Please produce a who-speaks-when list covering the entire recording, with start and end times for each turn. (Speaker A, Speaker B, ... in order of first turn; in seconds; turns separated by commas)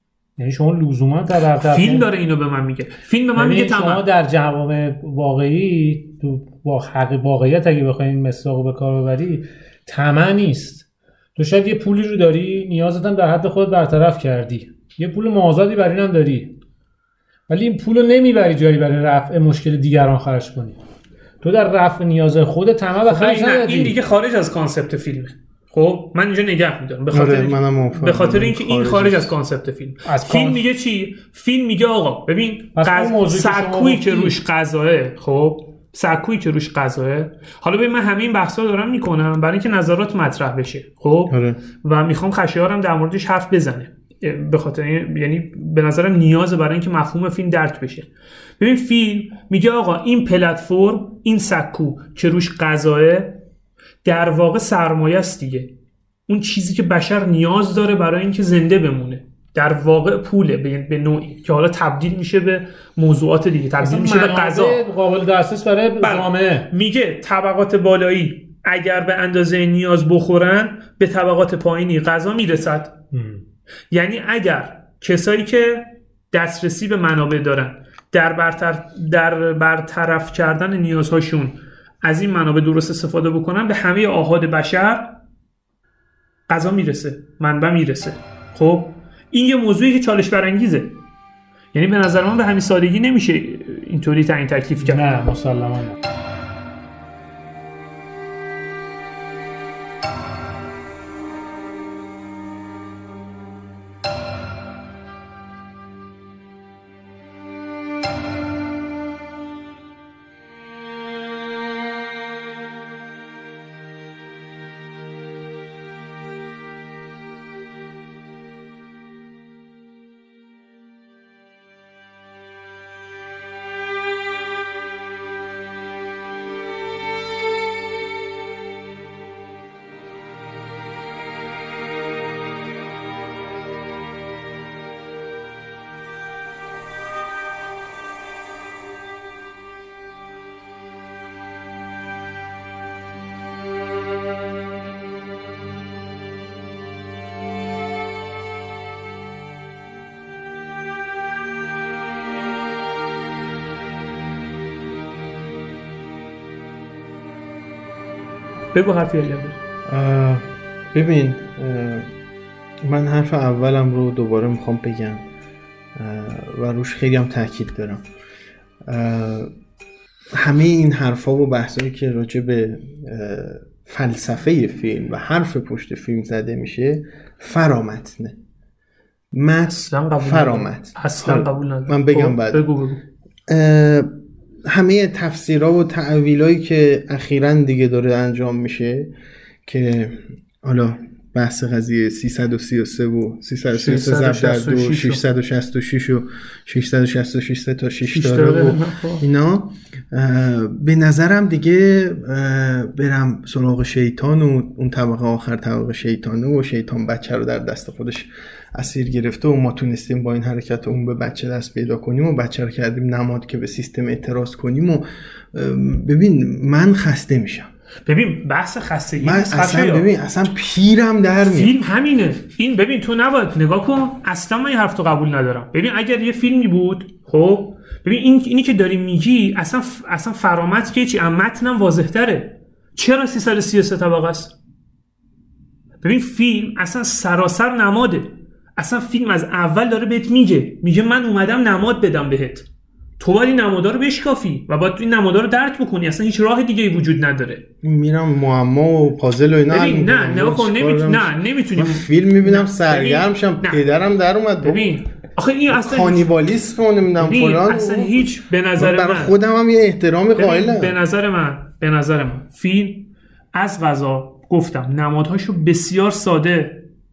Speaker A: 0.4-2.0, Speaker B: 1.6-4.0, Speaker A: 3.4-16.5, Speaker A: 17.5-20.8, Speaker A: 21.4-24.0, Speaker B: 23.1-41.3, Speaker C: 27.1-29.3, Speaker A: 30.0-30.6, Speaker A: 32.8-34.3, Speaker C: 41.3-41.6, Speaker B: 41.8-48.1, Speaker B: 48.6-53.4, Speaker B: 54.0-55.7, Speaker B: 56.3-64.8, Speaker A: 63.8-66.7, Speaker B: 66.0-72.9, Speaker A: 73.1-73.4, Speaker B: 73.9-85.1, Speaker B: 86.5-91.0, Speaker B: 91.7-95.0, Speaker A: 94.8-96.0, Speaker B: 158.7-159.6, Speaker C: 159.9-162.1, Speaker C: 162.8-165.2, Speaker C: 165.9-168.0, Speaker C: 168.8-169.5, Speaker C: 170.3-178.4, Speaker C: 179.3-182.6, Speaker B: 179.7-183.0, Speaker C: 183.5-184.1, Speaker C: 184.7-189.1, Speaker C: 189.6-217.7, Speaker B: 193.7-195.2, Speaker B: 198.1-199.2, Speaker B: 218.1-220.1, Speaker C: 219.2-221.7, Speaker B: 221.4-234.5, Speaker B: 236.0-242.7, Speaker B: 243.2-247.6, Speaker C: 247.8-254.9, Speaker B: 249.7-253.8, Speaker B: 254.6-256.3, Speaker C: 255.7-258.2, Speaker B: 257.2-259.3, Speaker C: 258.8-260.9, Speaker B: 260.3-266.8